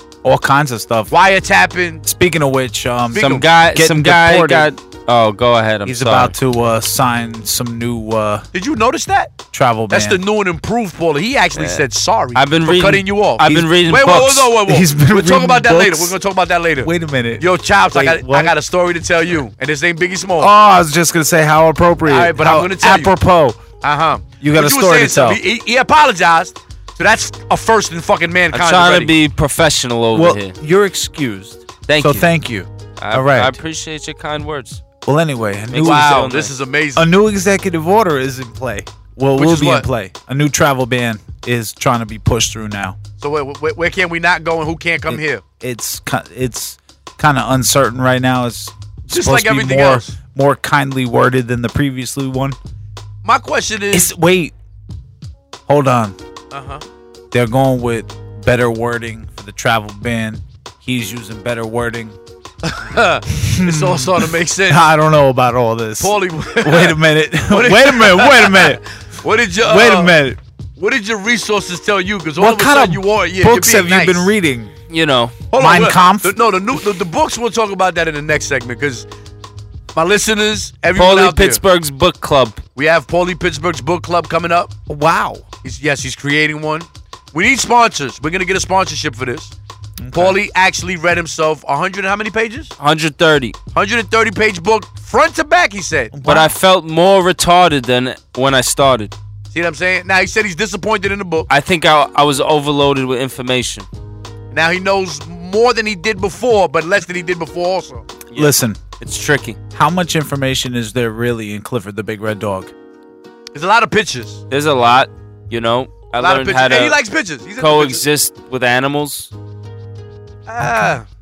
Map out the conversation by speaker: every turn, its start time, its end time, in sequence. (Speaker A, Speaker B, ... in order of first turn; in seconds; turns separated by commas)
Speaker A: 0.2-1.1, Speaker B: 1.1-2.0, Speaker A: 2.0-4.7, Speaker B: 3.1-3.5, Speaker C: 3.1-6.3, Speaker A: 5.8-8.5, Speaker B: 8.5-9.3, Speaker A: 9.5-10.2, Speaker B: 9.9-20.5, Speaker C: 11.5-11.8, Speaker C: 12.3-14.5, Speaker A: 13.4-16.1, Speaker A: 16.8-18.6, Speaker A: 20.4-23.6, Speaker B: 22.1-23.1, Speaker B: 23.8-29.1, Speaker A: 24.4-25.4, Speaker C: 28.5-30.5, Speaker A: 30.1-33.6, Speaker C: 31.9-32.3, Speaker C: 33.0-34.8, Speaker A: 35.0-36.2, Speaker C: 35.7-36.5, Speaker B: 35.8-37.1, Speaker A: 37.0-43.0, Speaker B: 39.4-39.9, Speaker B: 43.2-45.4, Speaker A: 45.1-52.6, Speaker B: 49.0-50.1, Speaker B: 53.2-54.1, Speaker A: 53.9-54.5, Speaker A: 55.7-56.2, Speaker B: 56.5-56.8, Speaker A: 57.3-62.1, Speaker B: 62.6-64.8, Speaker A: 63.4-68.8, Speaker B: 66.0-67.0, Speaker B: 67.5-70.2, Speaker A: 69.6-70.4, Speaker B: 70.8-74.3, Speaker A: 72.4-74.7, Speaker C: 74.9-75.3, Speaker B: 75.5-79.1, Speaker A: 75.5-76.4, Speaker B: 79.9-81.6, Speaker C: 80.9-82.6, Speaker B: 82.8-84.7, Speaker A: 84.9-85.5, Speaker B: 85.6-89.5, Speaker A: 90.0-90.4, Speaker B: 90.1-92.7, Speaker C: 92.8-93.5, Speaker B: 93.7-96.1, Speaker A: 96.1-96.5, Speaker C: 96.2-99.1, Speaker B: 99.5-101.5, Speaker C: 101.5-103.9, Speaker B: 104.5-108.1, Speaker C: 108.3-109.6, Speaker A: 108.3-108.8, Speaker A: 109.7-112.7, Speaker B: 113.5-114.4, Speaker C: 114.5-117.0, Speaker B: 116.1-118.0, Speaker C: 117.6-119.3, Speaker B: 120.5-121.0